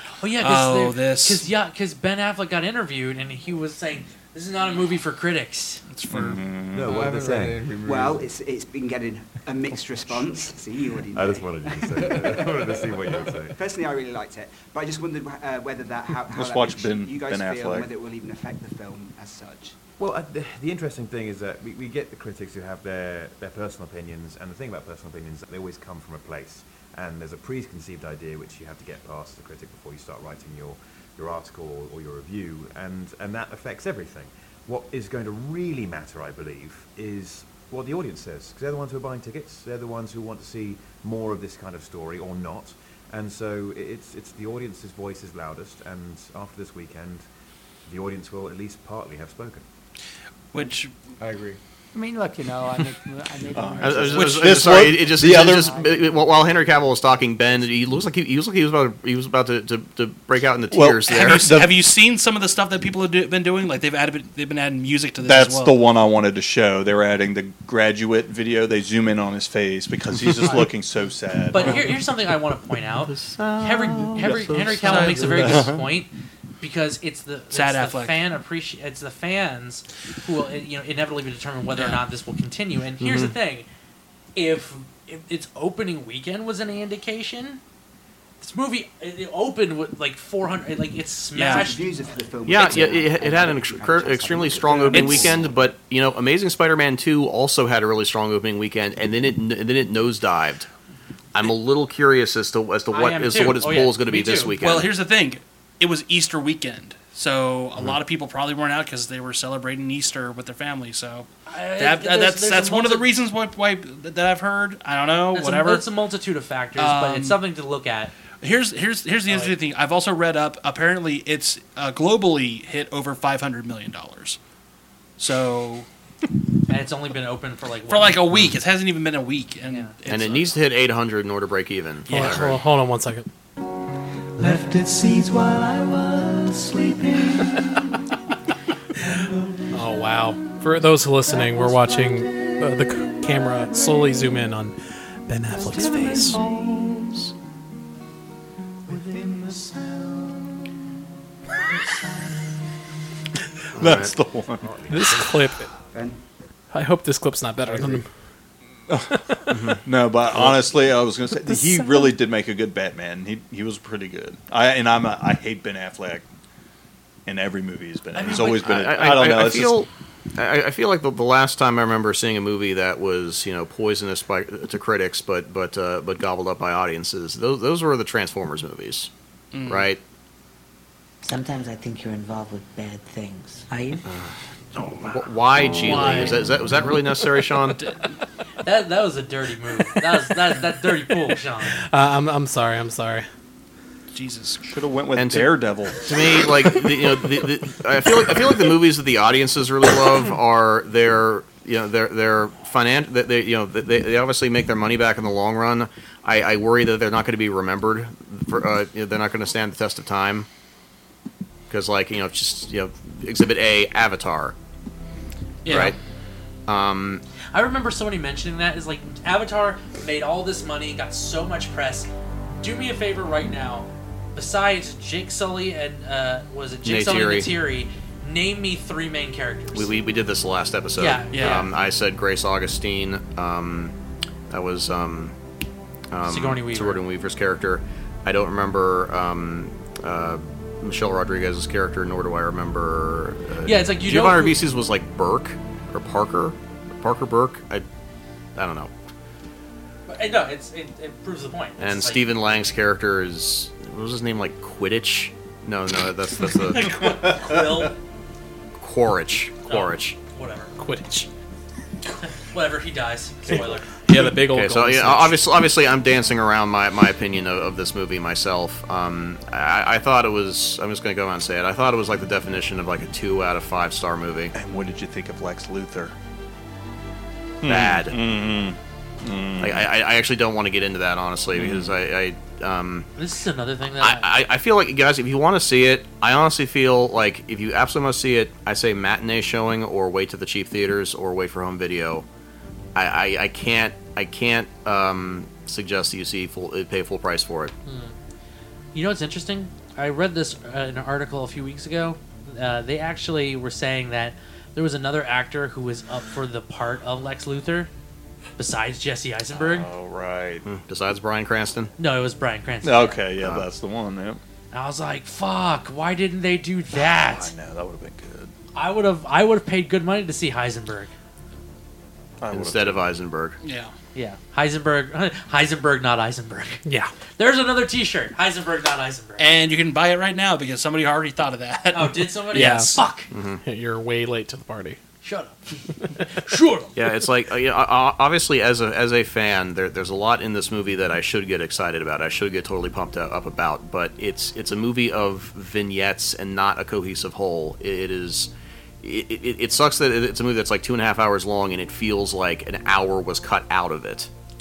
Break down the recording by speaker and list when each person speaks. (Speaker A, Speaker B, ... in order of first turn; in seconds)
Speaker A: 0.2-5.8, 71.5-76.1, 76.6-83.7, 84.3-87.6, 88.4-92.0, 102.9-104.5, 111.5-113.1, 115.3-118.1, 119.3-119.5, 126.7-128.2, 129.7-129.9, 168.1-168.6, 188.6-191.8, 217.5-229.9, 231.0-231.7, 236.2-237.0, 243.6-244.6, 250.1-252.3, 256.5-257.9, 259.7-260.8, 262.4-263.9, 283.2-284.3, 297.9-298.1, 298.9-307.9, 308.6-309.9, 312.0-313.2, 314.7-317.5, 318.7-321.1, 324.1-326.8, 327.4-329.4, 331.9-333.3, 335.2-335.6, 336.3-337.0
Speaker B: 0.4-1.5, 5.9-6.5, 50.5-50.9, 61.1-65.8, 74.8-75.6, 77.5-78.2, 81.7-82.0, 91.3-91.8, 94.9-95.2, 104.6-115.9, 116.8-117.4, 118.4-124.4, 125.2-125.9, 127.9-130.5, 132.1-132.5, 179.5-179.9, 185.8-186.5, 187.7-188.1, 194.1-194.6, 215.6-215.9, 231.3-231.7, 323.6-323.9, 329.4-333.0
Speaker C: 6.1-7.0, 16.3-17.9, 53.5-55.7, 60.7-61.7, 65.2-71.9, 74.2-74.7, 75.3-75.8, 153.8-154.7, 159.8-166.2, 167.2-169.8, 194.6-196.1, 274.5-276.1, 277.6-279.9, 281.5-281.9, 309.5-310.6, 312.8-314.4, 316.9-318.5, 322.4-323.1
Speaker D: 6.7-8.1, 11.1-13.5, 20.0-47.3, 47.9-49.6
Speaker E: 7.8-12.8, 13.5-19.8, 91.4-95.5, 155.9-156.2
Speaker F: 53.8-61.5, 72.8-75.5, 83.0-83.3, 92.5-100.7, 101.3-104.9, 130.1-132.6, 153.8-154.1, 159.5-159.8, 168.2-179.1, 179.7-180.0, 184.1-187.8, 195.1-210.5, 211.7-214.5, 215.7-216.0, 216.7-217.2, 226.8-227.5, 229.7-233.9, 234.5-235.3, 236.1-247.8, 248.6-248.9, 251.8-257.0, 258.8-260.2, 264.1-274.5, 277.6-278.2, 279.6-283.1, 284.0-292.2, 292.9-297.7, 310.6-311.9, 313.4-313.7, 322.5-323.6, 333.3-333.6, 336.9-348.5, 349.0-354.3
Speaker G: 132.1-133.3, 139.7-144.7, 145.3-146.4, 154.9-155.7, 156.7-158.1, 161.6-161.9, 191.7-193.3, 260.8-261.3, 263.5-265.4, 326.8-327.1, 332.5-332.9, 333.6-335.0
Speaker H: 134.4-138.0, 139.0-140.6, 141.2-143.9, 145.5-147.3, 148.8-150.6, 151.7-152.5
Speaker I: 181.2-184.0